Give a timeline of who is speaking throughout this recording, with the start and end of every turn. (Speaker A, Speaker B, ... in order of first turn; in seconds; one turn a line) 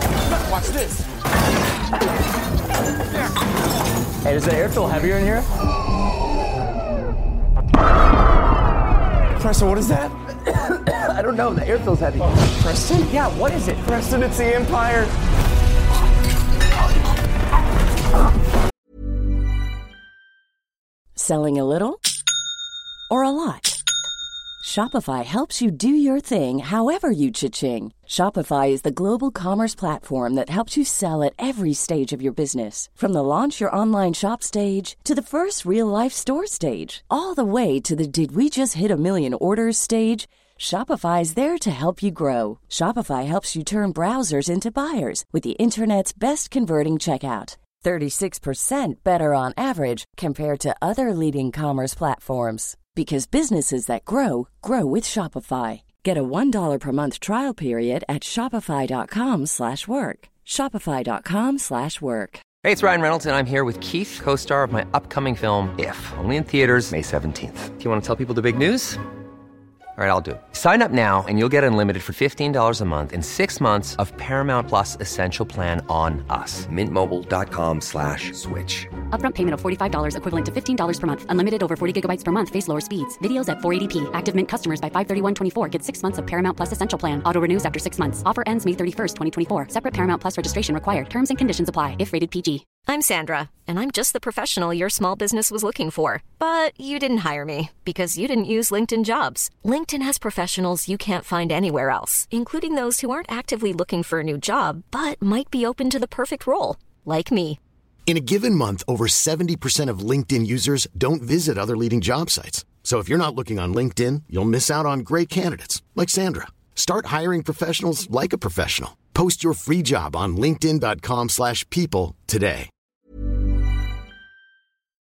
Speaker A: 0.3-1.1
Speaker B: 4.2-5.5
Speaker A: 9.4-10.2
Speaker C: 10.5-12.3
Speaker A: 12.4-13.1
Speaker B: 13.1-13.8
Speaker A: 13.8-15.1
Speaker D: 21.1-22.0
Speaker D: 23.1-23.8
Speaker D: 24.6-62.4
Speaker C: 62.6-69.0
Speaker C: 70.0-78.9
Speaker E: 79.1-92.7
Speaker F: 92.7-107.6
Speaker G: 108.0-122.7